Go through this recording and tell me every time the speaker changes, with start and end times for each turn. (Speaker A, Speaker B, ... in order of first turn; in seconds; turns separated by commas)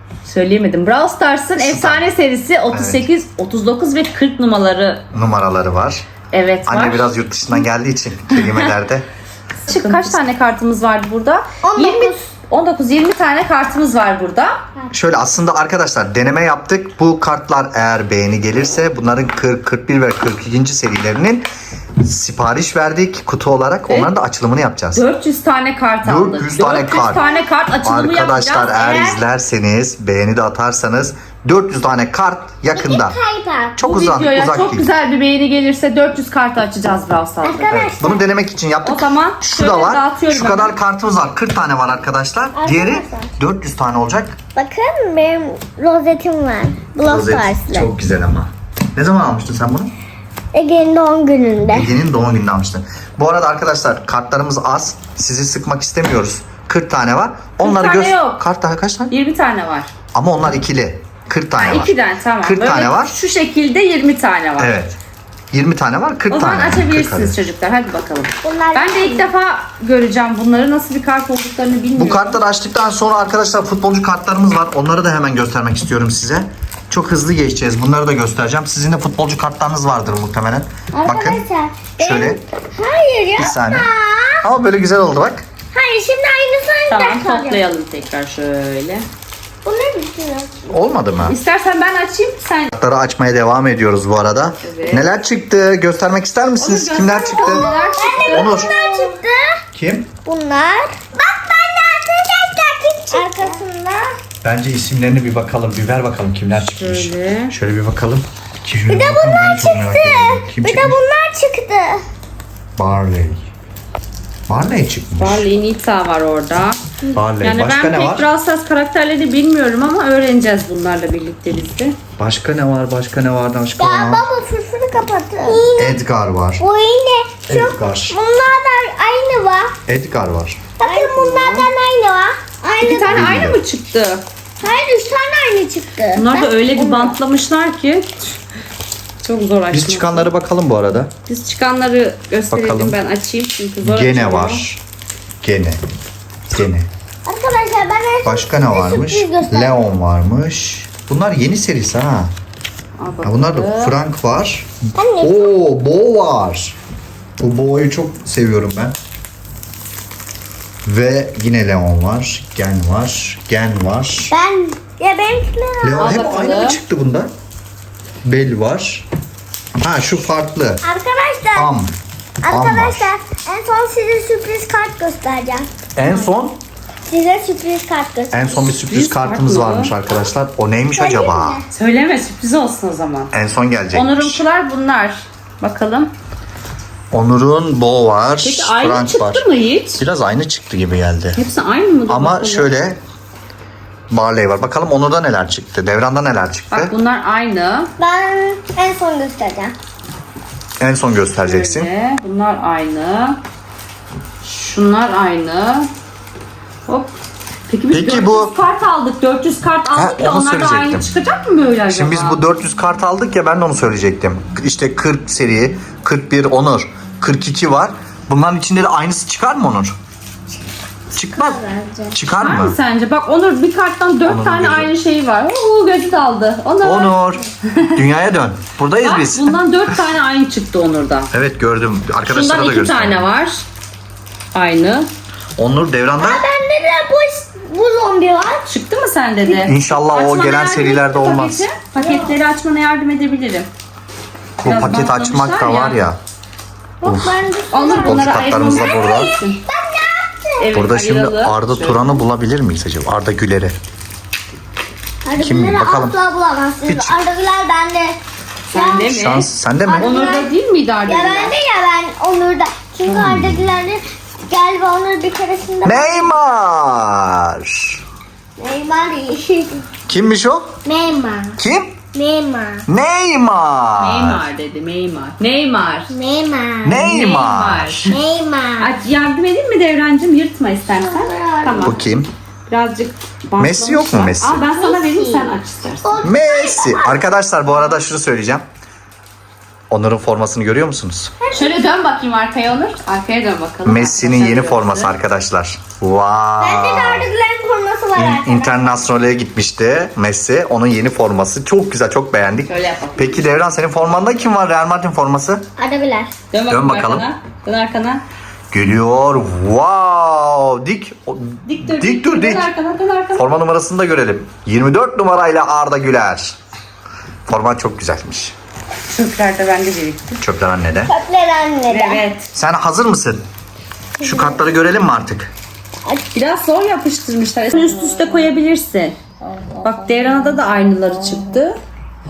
Speaker A: 0.2-5.0, Speaker B: 1.6-2.1, Speaker B: 2.7-3.1, Speaker B: 5.1-6.1, Speaker A: 6.3-7.1, Speaker B: 6.7-9.1, Speaker A: 8.3-8.7, Speaker A: 9.7-14.6, Speaker C: 11.6-12.3, Speaker B: 14.9-21.5, Speaker B: 22.0-25.0, Speaker A: 24.9-29.2, Speaker B: 26.0-27.2, Speaker C: 27.1-27.5, Speaker B: 27.9-33.2, Speaker C: 32.8-33.8, Speaker B: 33.8-34.9, Speaker A: 33.8-37.8, Speaker C: 37.4-38.2, Speaker B: 37.7-44.4, Speaker A: 38.8-40.7, Speaker C: 42.5-43.3, Speaker C: 44.5-47.9, Speaker B: 47.0-49.9, Speaker C: 50.5-51.9, Speaker B: 51.7-59.1, Speaker A: 57.6-58.4, Speaker A: 59.1-59.9, Speaker B: 60.1-63.1, Speaker A: 61.6-64.8, Speaker B: 64.6-65.0, Speaker B: 65.5-67.4, Speaker A: 66.3-72.4, Speaker C: 68.4-69.3, Speaker B: 72.0-81.4, Speaker C: 80.9-84.5, Speaker B: 82.0-82.4, Speaker B: 83.4-83.9, Speaker B: 84.4-85.5, Speaker C: 85.7-87.6, Speaker A: 86.9-89.0, Speaker C: 89.6-90.6, Speaker B: 90.7-91.4, Speaker A: 91.3-92.7, Speaker B: 92.7-97.7, Speaker A: 94.6-95.1, Speaker A: 96.5-98.9, Speaker C: 97.3-99.6, Speaker B: 98.2-98.8, Speaker B: 99.7-100.1, Speaker C: 100.2-104.1, Speaker B: 104.4-111.0, Speaker A: 106.5-107.5, Speaker C: 108.9-112.0, Speaker B: 112.8-113.4, Speaker B: 114.5-115.5, Speaker A: 115.2-116.8, Speaker B: 117.1-118.3, Speaker A: 117.4-122.0, Speaker B: 122.2-124.2, Speaker C: 123.8-126.0, Speaker B: 125.8-126.6, Speaker C: 126.6-129.7, Speaker B: 127.5-128.2, Speaker B: 129.9-130.6, Speaker C: 130.8-133.3, Speaker A: 130.8-131.7, Speaker A: 132.8-134.2, Speaker B: 133.1-133.6, Speaker C: 134.6-137.2, Speaker A: 136.2-138.1, Speaker A: 139.2-140.3, Speaker B: 139.7-141.1, Speaker A: 141.3-144.6, Speaker B: 142.5-143.0, Speaker B: 143.8-144.8, Speaker B: 145.4-145.8, Speaker B: 146.5-146.9, Speaker C: 147.3-149.8, Speaker B: 148.2-152.3, Speaker A: 153.0-154.0, Speaker B: 153.2-156.8, Speaker C: 155.0-155.6, Speaker B: 157.4-159.0, Speaker B: 160.8-164.3, Speaker C: 164.3-166.2, Speaker B: 165.8-167.3, Speaker A: 166.0-166.8, Speaker B: 168.2-169.1, Speaker B: 169.8-170.8, Speaker C: 170.8-171.8, Speaker B: 171.6-171.9, Speaker C: 172.4-175.7, Speaker B: 172.5-173.1, Speaker B: 176.0-176.6, Speaker C: 177.1-178.7, Speaker B: 178.3-181.6, Speaker A: 178.9-179.9, Speaker C: 181.0-181.7, Speaker A: 181.7-183.3, Speaker B: 183.3-184.4, Speaker A: 183.9-186.1, Speaker B: 187.1-189.4, Speaker A: 188.4-190.0, Speaker B: 190.0-191.4, Speaker A: 191.3-192.9, Speaker B: 192.1-193.0, Speaker B: 194.1-196.9, Speaker A: 196.7-197.9, Speaker C: 198.0-199.7, Speaker B: 200.8-201.9, Speaker A: 201.4-203.4, Speaker A: 204.4-205.9, Speaker A: 206.9-207.1, Speaker A: 207.7-212.4, Speaker B: 207.9-208.5, Speaker B: 209.9-211.1, Speaker B: 211.9-219.9, Speaker B: 221.1-222.8, Speaker C: 221.3-222.2, Speaker A: 222.3-227.2, Speaker B: 224.3-224.9, Speaker B: 226.8-229.6, Speaker A: 229.0-231.3, Speaker B: 231.3-233.2, Speaker A: 232.3-233.6, Speaker A: 234.5-235.1, Speaker B: 235.6-236.4, Speaker C: 236.2-238.7, Speaker A: 238.7-243.7, Speaker B: 239.6-241.7, Speaker C: 242.0-242.3, Speaker A: 244.6-246.0, Speaker B: 244.6-246.2, Speaker B: 247.0-247.4, Speaker C: 247.0-248.3, Speaker A: 247.7-249.6, Speaker B: 248.0-249.3, Speaker C: 249.7-250.7, Speaker A: 250.6-252.2, Speaker B: 250.7-253.8, Speaker C: 255.2-258.2, Speaker B: 255.4-256.2, Speaker B: 256.9-257.2, Speaker A: 258.7-261.6, Speaker C: 258.7-259.2, Speaker B: 259.0-260.2, Speaker C: 259.9-260.5, Speaker C: 261.1-266.4, Speaker B: 263.1-263.7, Speaker B: 265.8-268.0, Speaker C: 268.6-269.8, Speaker B: 270.1-270.8, Speaker C: 270.9-271.6, Speaker B: 271.6-272.0, Speaker C: 272.1-272.9, Speaker B: 272.9-274.4, Speaker A: 274.0-276.1, Speaker C: 276.1-277.1, Speaker B: 276.8-278.1, Speaker A: 277.0-278.2, Speaker C: 278.1-278.9, Speaker A: 278.8-282.1, Speaker C: 281.0-282.1, Speaker B: 281.8-282.3, Speaker A: 282.7-286.2, Speaker B: 283.6-284.7, Speaker C: 284.7-285.5, Speaker C: 286.0-287.2, Speaker B: 286.2-288.6, Speaker B: 289.9-291.3, Speaker C: 291.4-291.9, Speaker A: 291.5-295.1, Speaker B: 293.9-297.3, Speaker C: 296.6-298.9, Speaker B: 298.2-305.6, Speaker A: 302.7-303.4, Speaker C: 305.8-306.3, Speaker A: 306.5-308.2, Speaker B: 306.7-307.3, Speaker B: 308.7-312.7, Speaker A: 311.7-313.5, Speaker B: 313.4-316.6, Speaker B: 317.5-318.5, Speaker A: 319.1-320.4, Speaker B: 320.4-321.1, Speaker C: 321.1-322.2, Speaker A: 321.9-322.5, Speaker B: 322.5-323.4, Speaker B: 324.2-325.5, Speaker A: 326.3-329.2, Speaker A: 329.8-331.8